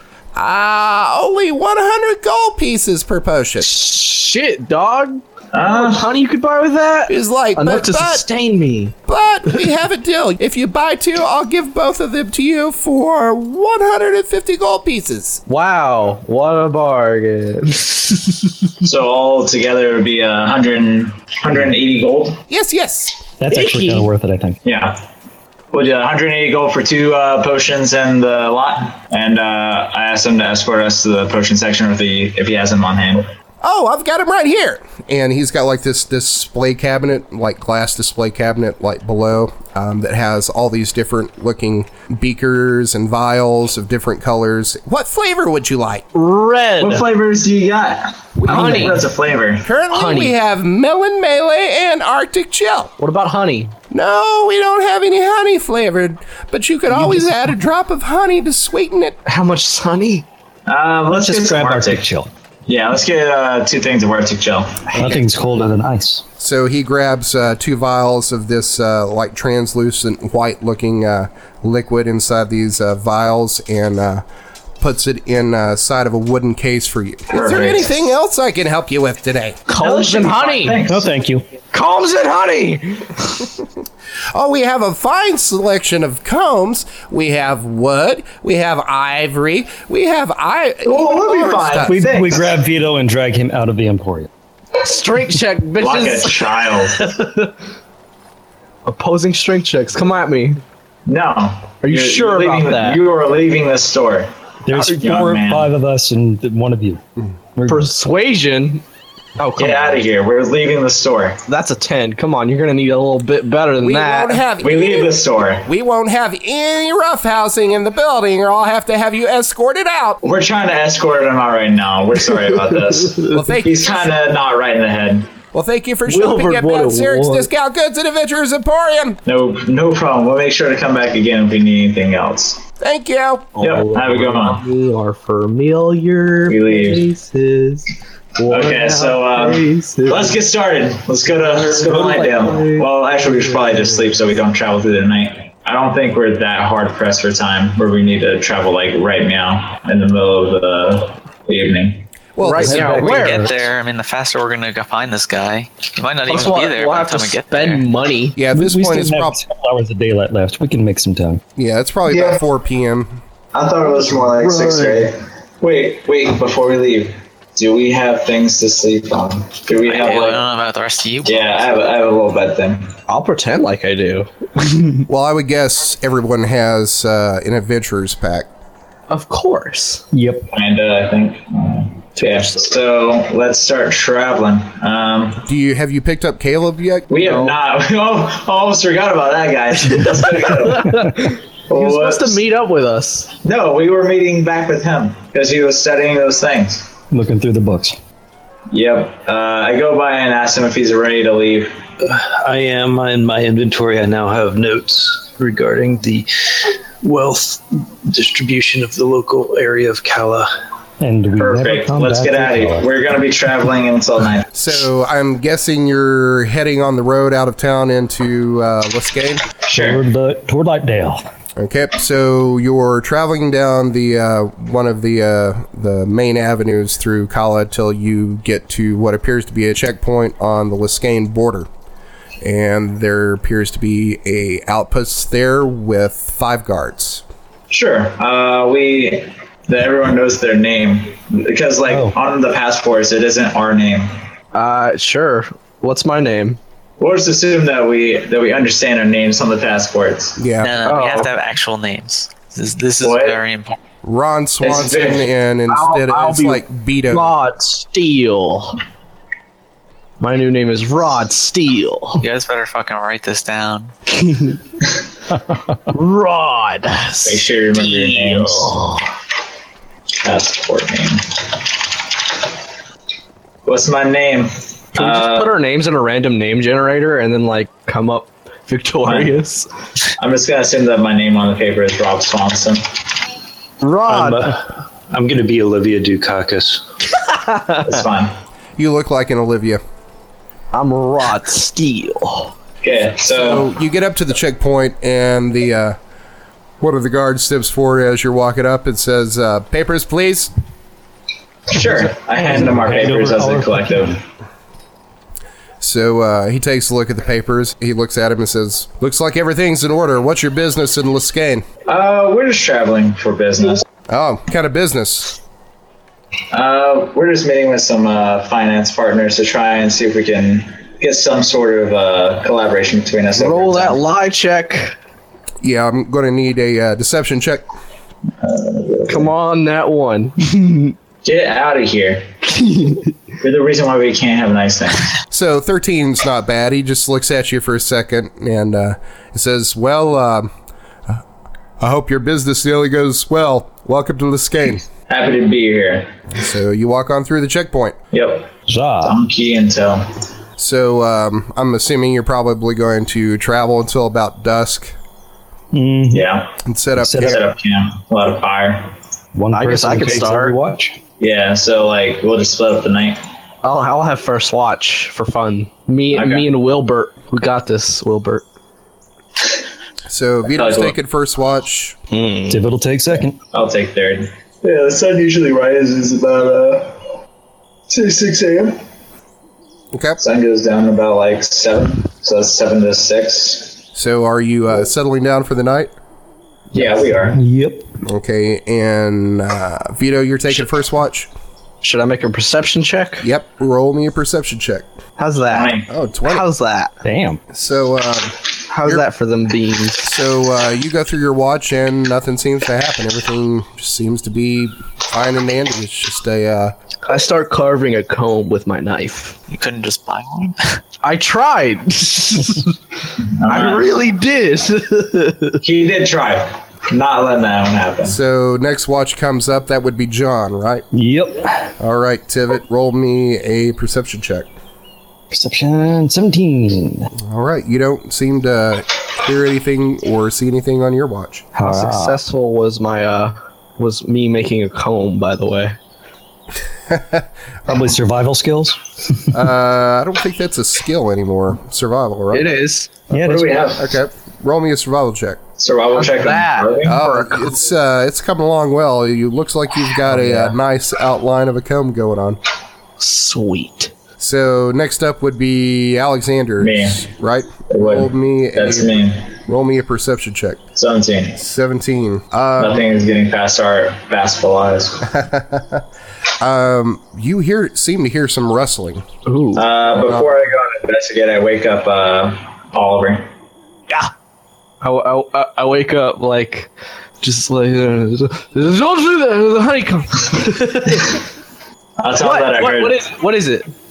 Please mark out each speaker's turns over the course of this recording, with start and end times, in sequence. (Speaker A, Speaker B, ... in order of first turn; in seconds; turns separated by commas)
Speaker A: 0.3-3.7, Speaker B: 3.6-8.9, Speaker C: 5.5-6.1, Speaker A: 7.1-8.2, Speaker A: 9.1-15.4, Speaker B: 15.5-18.5, Speaker C: 18.8-22.4, Speaker A: 22.5-23.2, Speaker D: 23.4-24.6, Speaker B: 23.5-24.1, Speaker C: 24.6-25.0, Speaker C: 25.7-33.3, Speaker A: 33.6-46.0, Speaker B: 46.1-47.0, Speaker C: 46.8-49.7, Speaker A: 48.4-49.0, Speaker B: 48.5-49.0, Speaker A: 49.6-52.9, Speaker B: 49.9-50.3, Speaker B: 53.0-53.7, Speaker A: 53.9-59.2, Speaker B: 59.2-60.2, Speaker C: 60.7-62.1, Speaker D: 61.1-62.3, Speaker C: 62.7-64.8, Speaker B: 64.9-65.2, Speaker D: 64.9-66.2, Speaker A: 66.4-74.2, Speaker A: 74.8-79.6, Speaker C: 77.3-78.0, Speaker B: 79.7-80.8, Speaker C: 79.8-81.1, Speaker D: 80.8-81.4, Speaker B: 81.7-83.4, Speaker A: 84.3-92.0, Speaker C: 90.8-92.6, Speaker D: 91.8-94.3, Speaker B: 94.8-97.5, Speaker C: 95.8-97.1, Speaker B: 98.9-100.6, Speaker C: 101.1-105.7, Speaker B: 101.8-103.0, Speaker D: 104.7-107.0, Speaker D: 107.5-107.9, Speaker B: 107.7-108.8, Speaker B: 109.4-110.0, Speaker C: 109.6-111.4, Speaker B: 111.5-114.4, Speaker A: 113.8-120.2, Speaker C: 114.6-115.7, Speaker C: 120.2-125.3, Speaker A: 123.3-124.1, Speaker A: 125.5-129.2, Speaker B: 126.1-127.5, Speaker C: 129.2-132.6, Speaker A: 132.8-133.5, Speaker B: 133.6-140.4, Speaker C: 133.6-134.6, Speaker C: 136.5-137.1, Speaker C: 138.5-152.1, Speaker B: 141.3-144.1, Speaker A: 152.4-153.0, Speaker B: 152.4-153.5, Speaker D: 152.6-153.5, Speaker E: 152.7-157.9, Speaker B: 156.3-158.4, Speaker A: 158.4-159.4, Speaker D: 158.5-161.4, Speaker A: 161.6-163.2, Speaker C: 162.1-162.4, Speaker C: 163.5-170.4, Speaker B: 164.2-165.1, Speaker E: 169.8-171.5, Speaker C: 171.2-172.9, Speaker B: 173.1-175.0, Speaker A: 175.1-178.5, Speaker B: 179.1-180.0, Speaker D: 180.1-180.5, Speaker C: 180.5-185.4, Speaker B: 182.2-182.7, Speaker A: 185.4-187.1, Speaker C: 187.1-191.1, Speaker B: 187.2-187.5, Speaker B: 190.0-193.3, Speaker C: 191.7-192.4, Speaker C: 193.4-196.9, Speaker D: 197.1-197.9, Speaker C: 198.7-201.8, Speaker F: 202.0-210.5, Speaker D: 211.0-212.9, Speaker C: 211.4-214.5, Speaker A: 214.5-219.4, Speaker C: 219.7-220.0, Speaker D: 219.7-221.2, Speaker A: 221.6-231.7, Speaker A: 232.4-237.2, Speaker C: 237.7-244.1, Speaker B: 244.5-246.6, Speaker C: 247.0-250.4, Speaker A: 250.4-250.7, Speaker E: 250.6-253.8, Speaker B: 250.8-251.3, Speaker C: 253.0-253.4, Speaker A: 254.0-257.4, Speaker C: 254.6-255.2, Speaker B: 255.7-258.8, Speaker B: 260.2-262.2, Speaker E: 262.2-263.9, Speaker B: 264.2-264.5, Speaker B: 265.9-269.0, Speaker C: 267.2-268.7, Speaker C: 270.2-271.4, Speaker C: 273.6-275.5, Speaker B: 274.9-279.7, Speaker C: 279.0-279.3, Speaker C: 280.2-282.8, Speaker B: 283.8-284.5, Speaker F: 284.1-286.8, Speaker B: 287.3-287.9, Speaker C: 287.8-288.3, Speaker A: 288.8-289.8, Speaker B: 290.7-292.5, Speaker C: 292.8-293.7, Speaker A: 293.3-295.9, Speaker A: 296.8-300.5, Speaker C: 301.7-304.2, Speaker D: 302.4-304.2, Speaker A: 305.8-311.6, Speaker C: 311.9-313.8, Speaker A: 314.1-315.4, Speaker C: 316.5-324.0, Speaker B: 323.4-324.9, Speaker A: 325.6-327.6, Speaker C: 328.4-329.3, Speaker B: 329.1-330.9, Speaker C: 331.2-332.3, Speaker B: 332.5-333.0, Speaker C: 333.4-335.1, Speaker A: 335.3-340.5, Speaker A: 341.8-344.8, Speaker C: 345.1-346.1, Speaker A: 346.3-348.0, Speaker C: 348.1-350.1, Speaker D: 348.6-349.2, Speaker A: 350.6-354.9, Speaker D: 355.7-356.3, Speaker C: 356.1-356.5, Speaker A: 356.6-357.4, Speaker D: 357.0-357.4, Speaker C: 357.2-358.9, Speaker D: 359.4-361.0, Speaker B: 359.5-360.6, Speaker C: 361.2-363.2, Speaker B: 363.6-368.4, Speaker C: 366.1-366.5, Speaker A: 370.1-372.0, Speaker C: 370.5-370.9, Speaker B: 372.1-372.6, Speaker D: 372.5-373.4, Speaker C: 373.5-377.0, Speaker C: 377.9-378.8, Speaker A: 379.9-380.2, Speaker C: 380.2-383.8, Speaker A: 383.9-385.9, Speaker C: 386.7-387.4, Speaker D: 387.3-387.9, Speaker A: 388.0-391.3, Speaker B: 391.8-393.2, Speaker A: 393.2-394.9, Speaker B: 395.2-397.0, Speaker C: 395.5-395.9, Speaker A: 395.9-396.5, Speaker D: 397.0-397.4, Speaker A: 397.5-399.0, Speaker B: 398.7-400.1, Speaker A: 400.0-406.7, Speaker B: 407.1-409.4, Speaker E: 409.5-410.8, Speaker B: 411.0-412.8, Speaker C: 413.2-413.9, Speaker B: 413.5-415.6, Speaker C: 415.6-418.2, Speaker A: 418.0-420.9, Speaker D: 420.9-421.7, Speaker A: 421.8-424.5, Speaker D: 425.3-427.1, Speaker A: 427.2-431.5, Speaker D: 431.5-432.2, Speaker B: 431.6-435.8, Speaker A: 436.9-437.2, Speaker D: 437.7-439.2, Speaker A: 439.3-442.5, Speaker B: 442.3-442.9, Speaker D: 443.1-443.6, Speaker C: 443.1-443.9, Speaker A: 443.8-445.4, Speaker C: 445.6-447.0, Speaker B: 445.9-447.6, Speaker A: 446.9-452.4, Speaker B: 453.0-453.9, Speaker A: 454.2-460.6, Speaker C: 456.6-457.0, Speaker C: 457.7-459.3, Speaker C: 460.8-461.4, Speaker A: 461.4-462.8, Speaker C: 462.6-465.1, Speaker A: 465.0-465.8, Speaker A: 466.4-469.1, Speaker B: 469.2-469.6, Speaker C: 469.5-473.3, Speaker A: 469.9-470.4, Speaker B: 474.8-476.7, Speaker B: 477.2-481.2, Speaker C: 482.0-483.0, Speaker B: 482.2-483.7